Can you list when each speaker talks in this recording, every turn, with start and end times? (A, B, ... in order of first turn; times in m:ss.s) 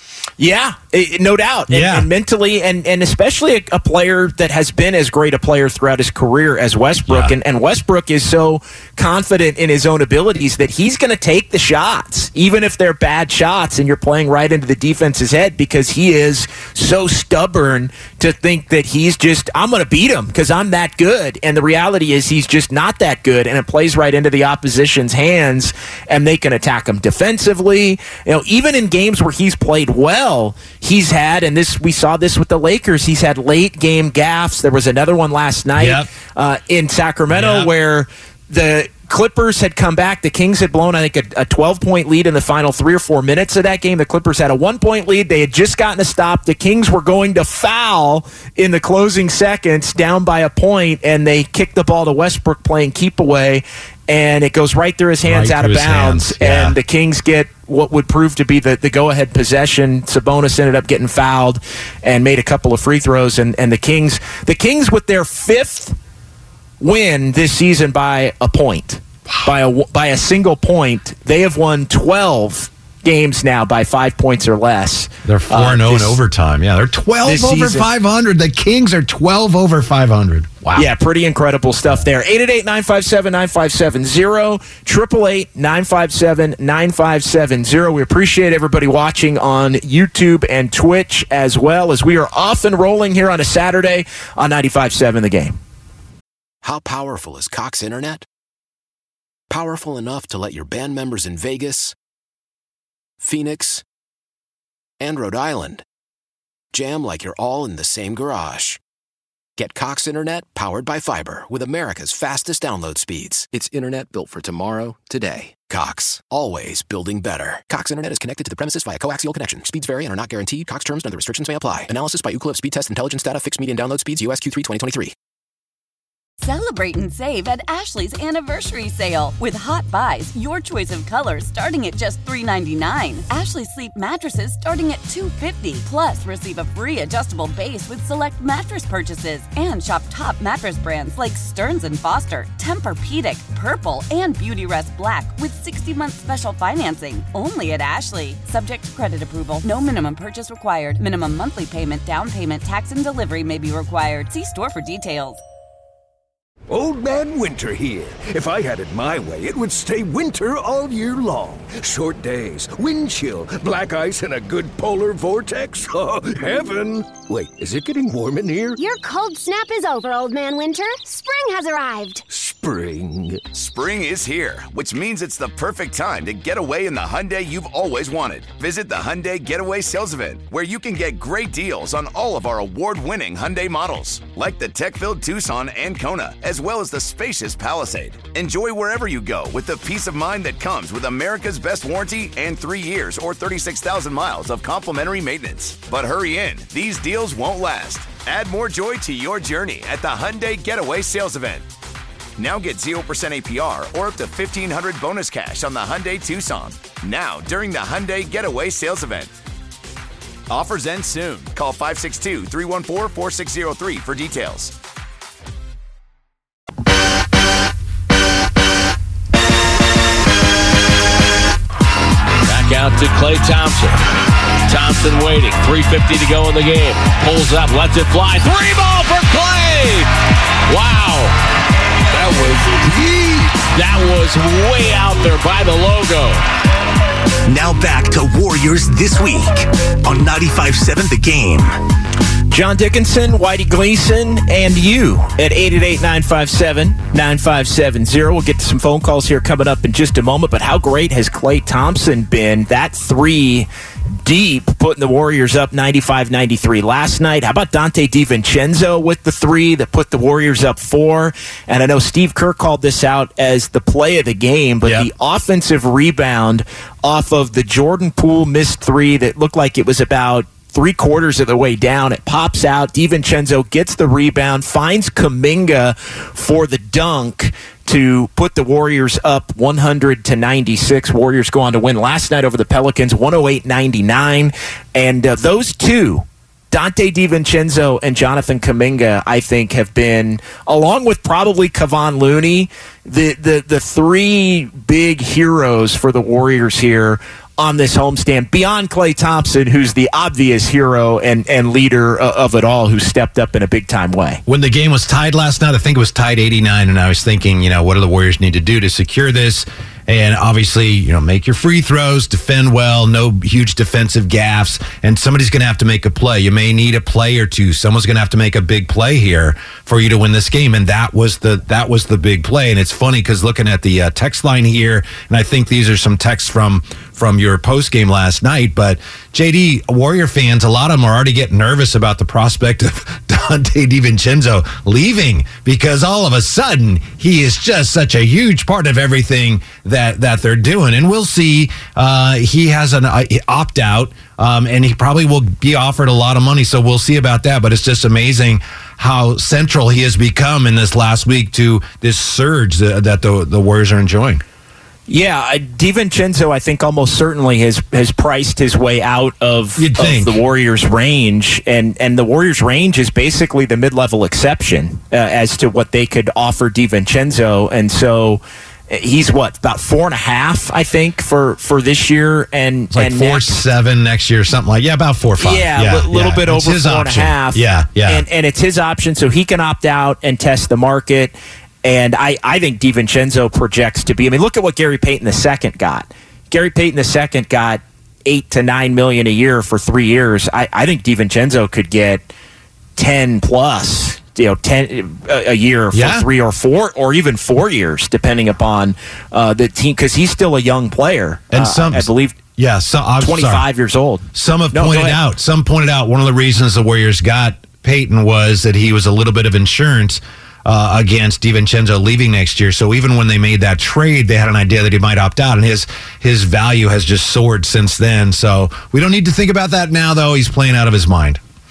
0:00.4-1:06.0 A
0:01.7-0:02.1 B
0:07.1-0:07.4 B
0:35.8-0:36.1 B
0:37.3-0:37.7 B
0:55.2-0:56.8 B
1:06.8-1:16.2 A
1:15.2-1:20.9 B
1:17.2-1:17.9 A
1:20.8-1:35.6 A
1:36.6-1:38.2 C
1:39.5-1:42.0 C
1:43.2-1:43.8 C
1:45.0-1:45.8 C
1:46.7-1:48.8 C
1:49.6-2:05.1 C
2:06.4-2:35.4 D
2:36.7-2:48.8 E
2:48.8-2:52.2 F
2:52.3-2:53.5 E
2:53.5-3:21.6 G
3:22.4-3:29.3 G
3:30.5-3:34.7 G
3:42.4-3:44.0 H
3:44.6-3:50.1 H
3:50.7-3:51.4 H
3:52.1-3:52.9 H
3:53.5-3:56.4 H
3:57.5-4:01.7 I
4:02.5-4:13.7 A
4:14.2-5:04.4 A
5:04.5-5:54.4 B
5:55.1-6:13.6 A
5:59.8-6:00.4 B
6:12.9-6:18.2 B
6:15.4-6:32.3 A
6:33.0-6:42.4 A
6:35.9-6:36.2 B
6:41.5-6:43.7 B
6:43.2-6:45.2 A
6:44.3-7:01.4 B